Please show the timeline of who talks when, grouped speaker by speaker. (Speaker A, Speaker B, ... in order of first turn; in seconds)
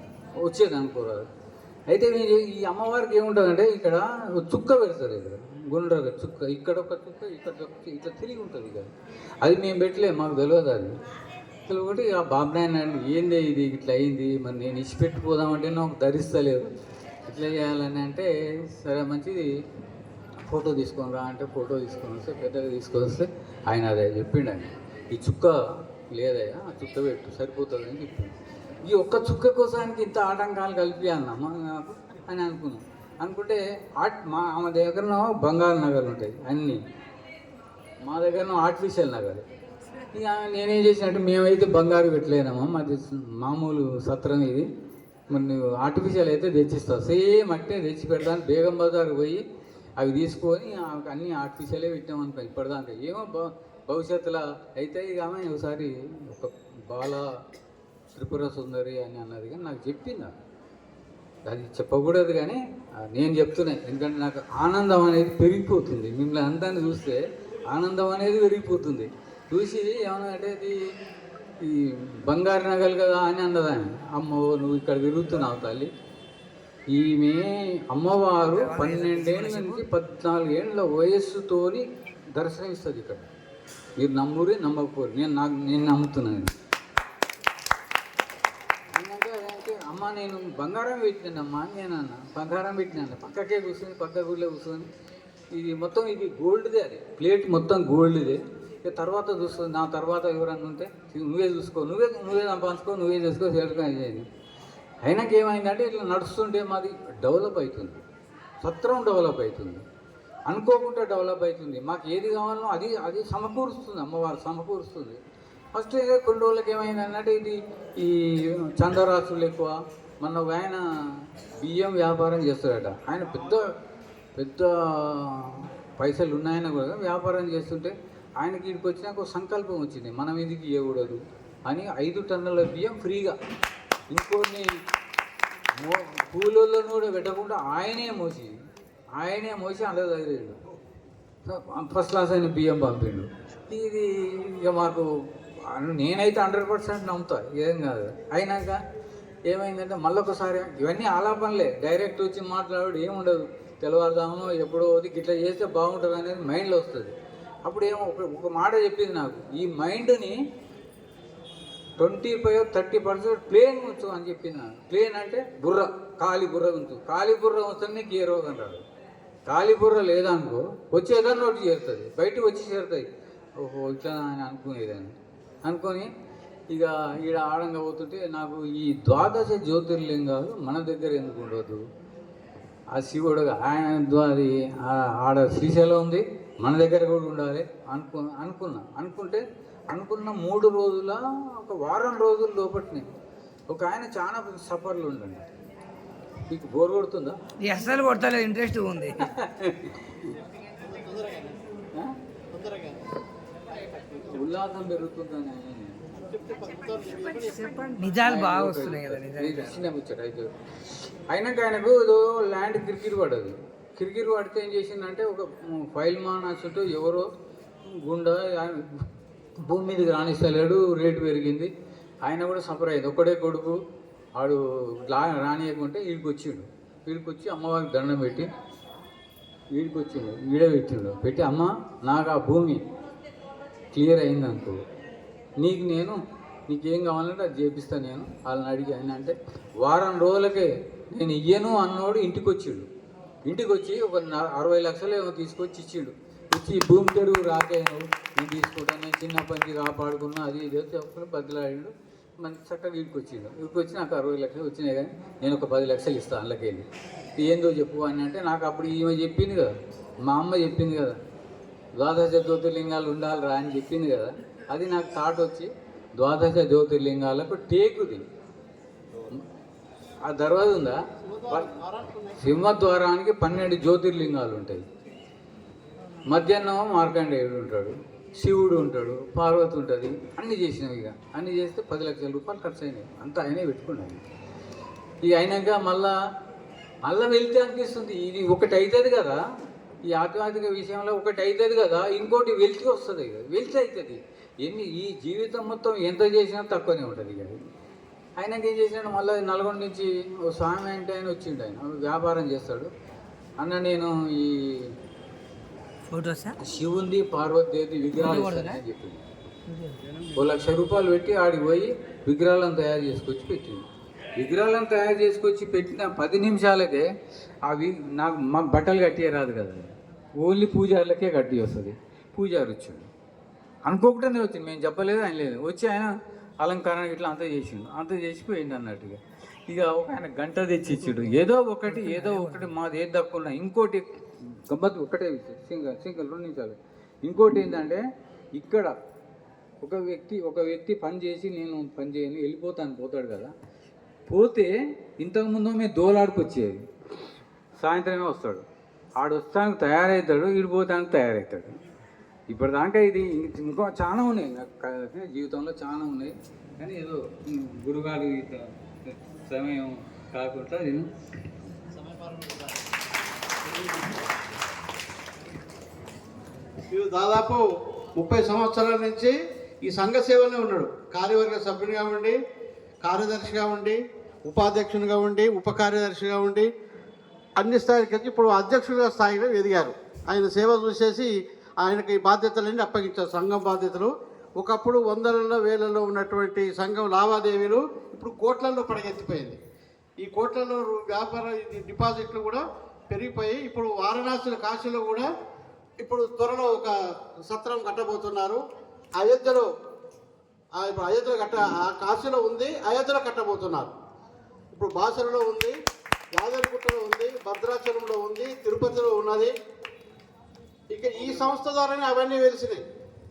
Speaker A: 0.4-1.3, 1.9-8.9, 9.4-10.9, 11.7-16.7, 17.3-19.5, 20.4-36.8, 38.0-39.5, 40.1-44.7, 45.3-49.4, 50.0-57.3, 58.1-60.4, 61.5-70.8, 71.6-75.9, 76.9-83.3, 84.0-86.5, 88.9-94.9, 95.5-104.3, 105.0-108.0, 108.6-109.8, 110.5-115.2, 115.8-120.8, 121.6-123.7, 124.4-133.4, 134.1-134.8, 135.8-138.6, 139.2-140.6, 141.5-145.1, 145.7-148.8, 149.5-160.4, 162.0-168.8, 169.5-173.1, 173.6-175.1, 175.7-176.1, 176.7-181.8, 182.9-193.1, 193.7-195.5, 196.5-197.4, 199.2-200.3, 204.3-206.0, 208.2-210.5, 211.3-217.3, 217.8-219.0, 219.6-221.7, 222.2-223.8, 224.4-228.5, 229.7-232.8, 233.9-234.8, 235.6-242.9, 243.5-256.9, 257.4-259.7, 260.3-261.2, 262.0-268.2, 270.3-271.7, 272.4-274.9, 276.3-284.2, 285.2-286.1, 287.1-289.4, 290.1-297.6, 298.4-302.9, 303.6-304.9, 306.6-309.2, 310.4-313.8, 314.4-317.1, 317.6-323.1, 323.9-334.1, 334.7-338.0, 338.6-338.9, 339.8-343.5, 344.3-346.8, 347.8-348.6, 349.2-351.8, 352.5-361.1
Speaker B: 78.5-79.8, 197.6-199.2, 207.5-209.8, 306.1-306.6, 308.2-308.8, 309.7-310.0, 332.0-332.7
Speaker C: 200.8-201.6, 202.6-203.0, 206.2-207.9, 271.2-272.4, 362.1-362.5, 366.9-367.6, 368.2-372.4, 373.0-376.7, 377.6-389.6, 390.2-395.3, 396.0-396.9, 397.5-398.6, 399.2-399.7, 400.8-403.9, 404.7-405.8, 406.4-409.5, 410.9-412.8